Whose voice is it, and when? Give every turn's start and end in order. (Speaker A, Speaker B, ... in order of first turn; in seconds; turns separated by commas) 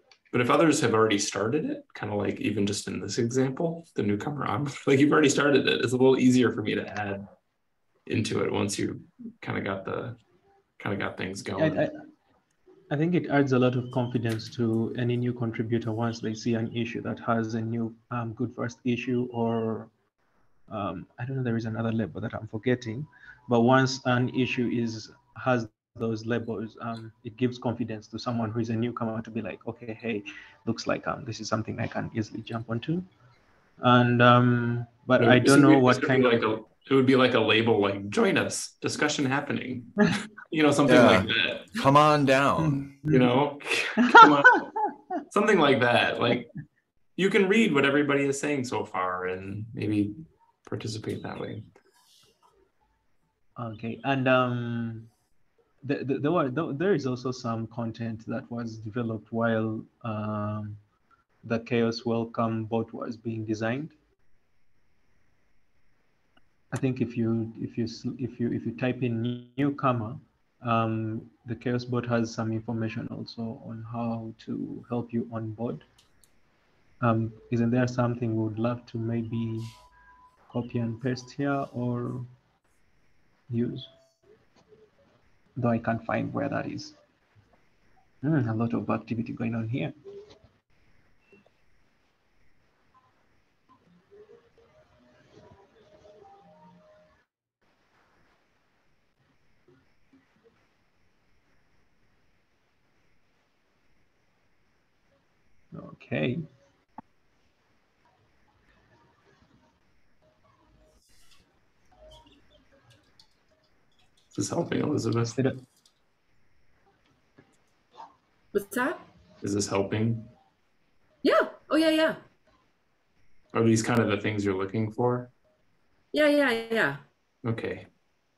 Speaker A: 0.3-7.3, Speaker A: 8.1-10.2, Speaker A: 10.8-11.9, Speaker B: 11.6-12.0, Speaker B: 12.9-19.9, Speaker B: 20.7-33.1, Speaker B: 33.8-36.5, Speaker A: 35.2-41.7, Speaker C: 40.9-43.0, Speaker B: 42.6-43.3, Speaker A: 43.1-44.7, Speaker A: 45.3-46.5, Speaker A: 47.2-51.7, Speaker B: 53.6-55.1, Speaker B: 55.8-60.8, Speaker B: 61.4-64.0, Speaker B: 66.7-75.9, Speaker B: 77.0-79.7, Speaker B: 80.5-82.3, Speaker B: 83.5-83.9, Speaker B: 85.6-87.0, Speaker B: 88.2-89.9, Speaker B: 105.7-106.5, Speaker A: 114.3-115.4, Speaker B: 115.2-115.6, Speaker D: 118.5-119.0, Speaker A: 119.4-120.3, Speaker D: 121.2-122.2, Speaker A: 123.5-125.3, Speaker D: 126.1-127.0, Speaker A: 127.4-127.9